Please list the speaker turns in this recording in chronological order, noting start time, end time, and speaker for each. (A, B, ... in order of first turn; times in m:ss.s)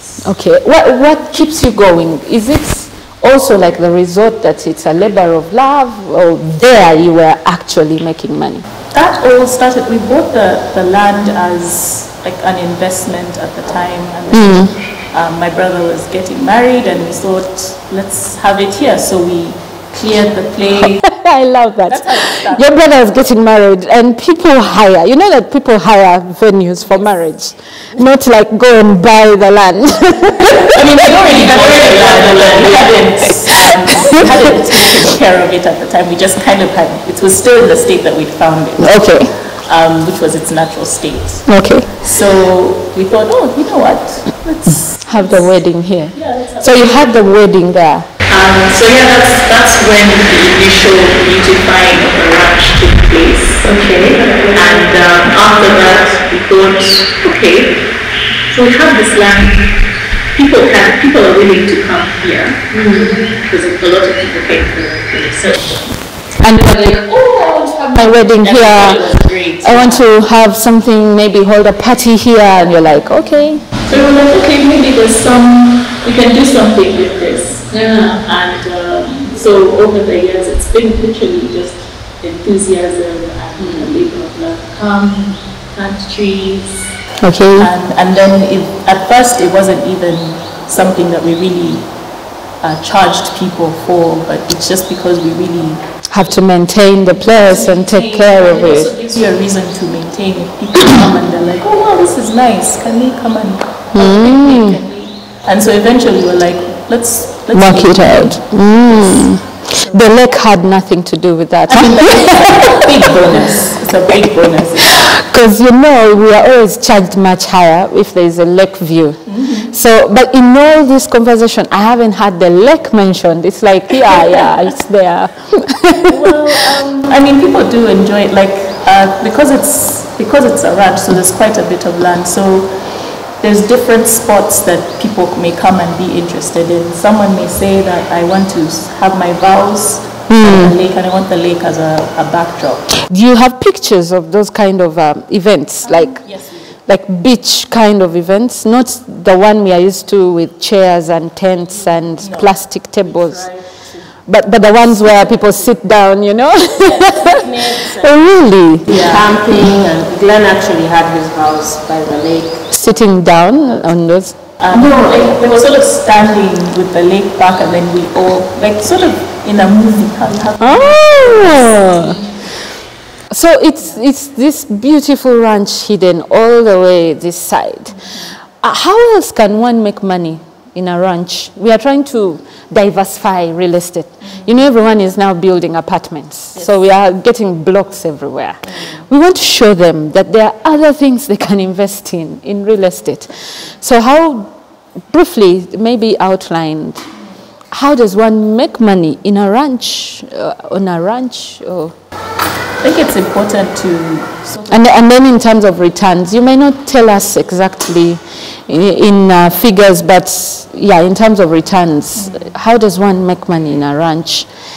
0:00.2-0:08.7 A
0:08.9-0:21.0 B
0:14.3-0:14.7 A
0:21.0-0:31.0 A
0:21.9-0:22.7 B
0:30.7-0:45.6 B
0:30.8-0:33.3 C
0:33.5-0:34.9 A
0:33.9-0:34.6 C
0:38.8-0:39.3 A
0:41.5-0:42.0 A
0:45.0-0:48.1 A
0:46.1-0:47.2 B
0:48.3-0:57.9 B
0:53.8-0:55.0 C
0:58.5-0:59.8 B
1:00.4-1:06.0 B
1:02.7-1:03.3 C
1:06.4-1:13.7 A
1:08.4-1:10.1 B
1:13.8-1:27.0 B
1:17.7-1:18.2 A
1:23.6-1:24.0 A
1:27.2-1:27.7 A
1:27.6-1:31.9 B
1:32.6-1:35.8 B
1:36.1-1:38.9 A
1:37.3-1:49.3 B
1:43.9-1:44.8 A
1:47.5-1:53.7 A
1:49.8-1:50.2 B
1:51.7-1:55.1 B
1:54.9-2:06.5 A
1:59.3-1:59.7 B
2:06.1-2:12.8 B
2:13.4-2:23.0 B
2:20.3-2:20.7 A
2:23.0-2:26.2 A
2:25.8-2:26.8 B
2:26.9-2:33.5 A
2:32.2-2:32.6 B
2:33.0-2:35.7 C
2:34.3-2:39.1 A
2:36.8-2:42.7 C
2:38.9-2:39.4 B
2:42.7-2:45.2 A
2:44.6-2:52.4 B
2:50.6-2:52.2 A
2:53.3-3:14.5 A
2:57.9-2:58.3 B
3:15.1-3:17.1 A
3:17.7-3:22.0 A
3:22.8-3:24.8 B
3:24.7-3:34.5 A
3:32.2-3:32.5 B